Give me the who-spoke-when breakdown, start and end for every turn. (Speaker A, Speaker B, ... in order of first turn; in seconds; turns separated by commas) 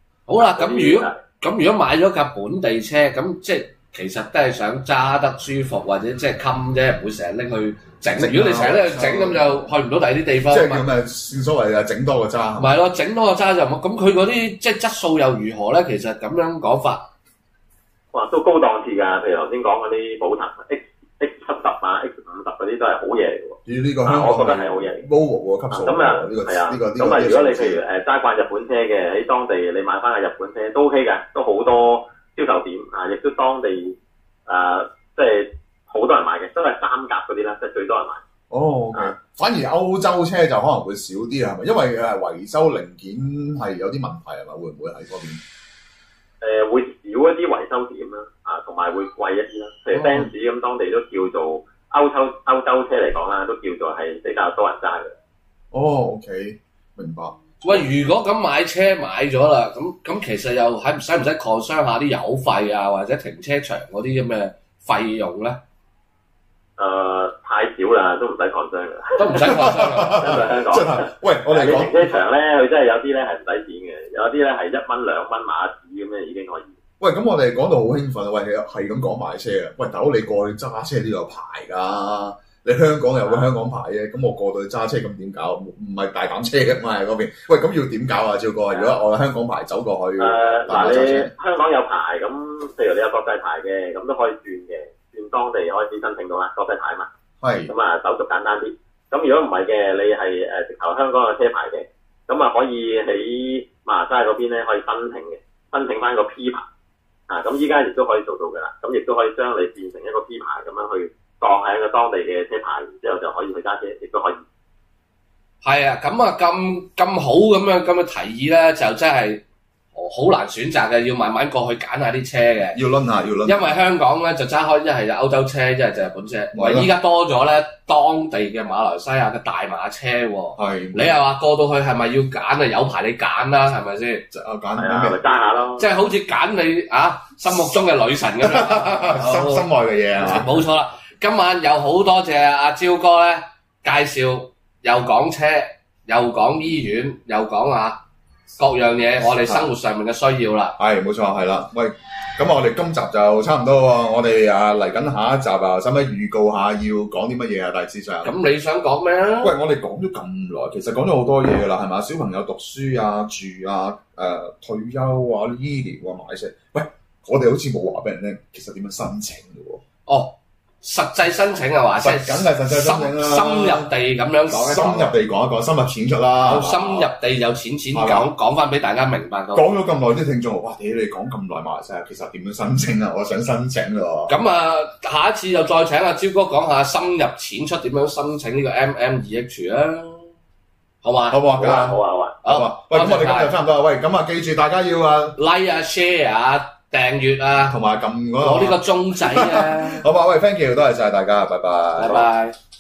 Speaker A: 0.3-10.8, Speaker B: 0.3-1.2, Speaker C: 8.1-9.6, Speaker C: 10.5-12.8, Speaker A: 12.6-17.1, Speaker B: 18.1-25.0, Speaker C: 23.6-27.8, Speaker B: 25.7-34.0, Speaker B: 34.5-38.2, Speaker C: 38.5-45.4, Speaker B: 46.4-55.1, Speaker C: 49.9-50.3, Speaker C: 55.7-57.9, Speaker A: 57.6-65.6, Speaker B: 66.8-76.7, Speaker A: 69.2-70.5, Speaker C: 69.4-72.1, Speaker C: 77.0-91.3, Speaker B: 88.7-89.0, Speaker B: 90.2-97.1, Speaker C: 97.4-97.7, Speaker B: 97.7-106.7, Speaker B: 107.3-114.4, Speaker A: 115.6-119.4, Speaker A: 119.9-122.8, Speaker C: 122.7-123.8, Speaker A: 123.4-134.2, Speaker C: 126.5-126.9, Speaker C: 130.6-131.2, Speaker C: 134.3-135.2, Speaker B: 134.7-135.9, Speaker A: 135.8-148.0, Speaker C: 138.4-140.5, Speaker A: 148.6-150.8, Speaker C: 149.2-149.7, Speaker C: 150.8-158.3, Speaker A: 158.2-159.6, Speaker C: 159.4-169.8, Speaker A: 170.1-175.1, Speaker C: 172.0-173.9, Speaker C: 174.5-177.1, Speaker A: 176.4-179.7, Speaker C: 177.9-178.3, Speaker C: 179.5-184.3, Speaker A: 184.3-190.3, Speaker A: 191.0-191.4, Speaker C: 191.3-195.4, Speaker B: 191.6-192.4, Speaker A: 192.4-193.5, Speaker A: 195.4-197.8, Speaker C: 197.7-202.3, Speaker A: 198.4-200.0, Speaker A: 202.0-202.6